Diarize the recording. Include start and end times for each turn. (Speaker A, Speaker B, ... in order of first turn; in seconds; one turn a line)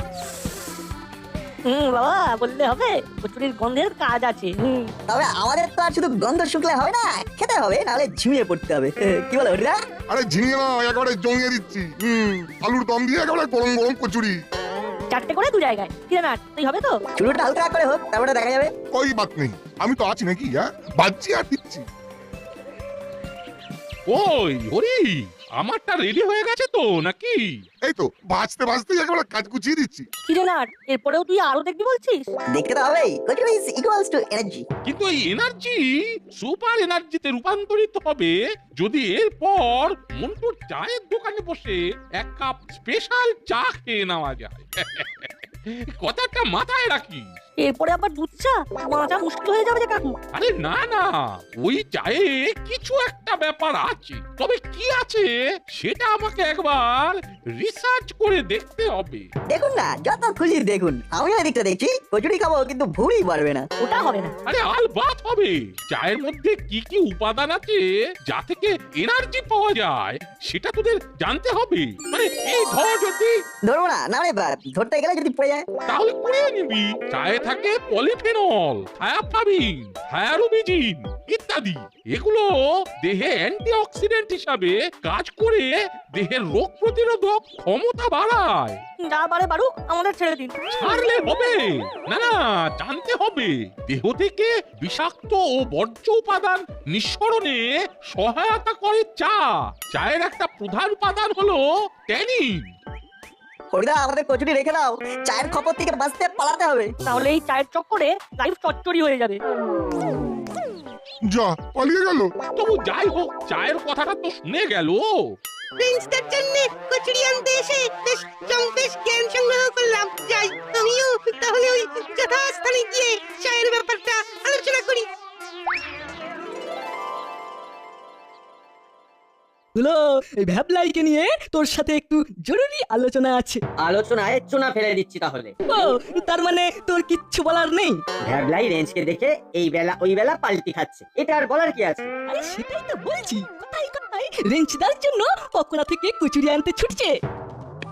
Speaker A: 1.7-4.9
Speaker B: 5.1-9.8
Speaker C: 10.1-14.4
Speaker A: 15.1-17.0
Speaker B: 17.2-18.7
Speaker C: 18.9-21.8
Speaker D: 24.1-27.4
Speaker C: 27.8-30.1
Speaker A: 30.3-32.2
Speaker B: 32.5-34.6
Speaker D: 34.9-47.2
Speaker A: 47.6-50.1
Speaker D: 50.3-59.3
Speaker B: 59.5-63.7
Speaker A: 63.8-64.3
Speaker D: 64.5-73.3
Speaker B: 73.7-75.6
Speaker D: 75.9-82.5
Speaker D: 83.0-88.8
Speaker A: 89.0-90.5
Speaker D: 90.7-102.7
Speaker B: 103.7-106.9
Speaker A: 107.0-109.4
Speaker C: 111.3-112.3
Speaker D: 112.5-115.0
Speaker E: 115.8-125.1
Speaker F: 129.7-133.6
Speaker G: 133.8-135.5
Speaker F: 135.7-137.9
Speaker G: 138.2-142.1
Speaker F: 142.3-147.1